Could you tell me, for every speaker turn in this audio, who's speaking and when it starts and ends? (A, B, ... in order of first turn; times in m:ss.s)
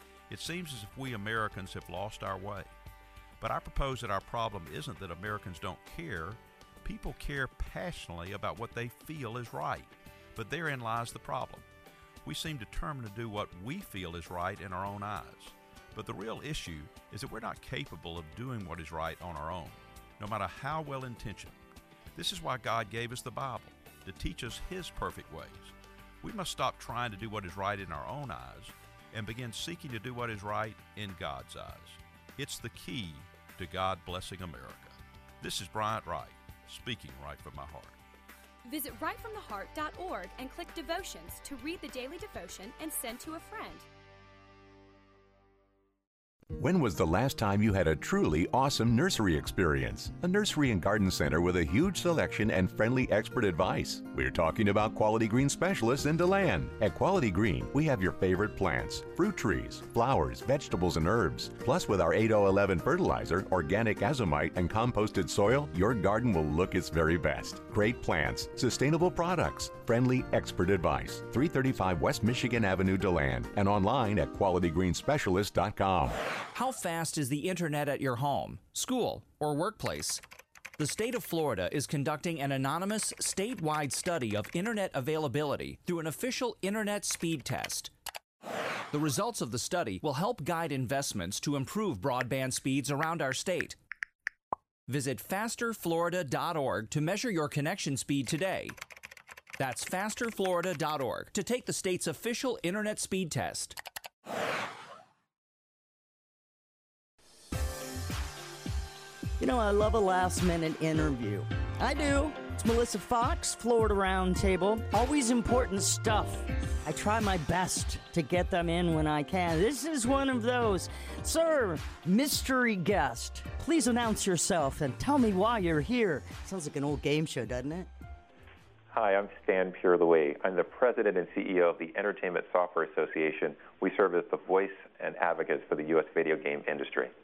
0:00.3-0:02.7 A
0:03.4-0:11.6 A
0:12.2-0:21.6 A
0:22.2-0:38.0 A
0:38.6-0:43.9 B
0:46.6-1:16.2 C
1:16.5-1:20.2 D
1:20.8-1:27.9 D
1:28.9-1:33.8 D
1:34.9-1:38.8 D
1:39.6-1:43.8 D
1:49.4-2:07.9 E
2:08.9-2:17.1 F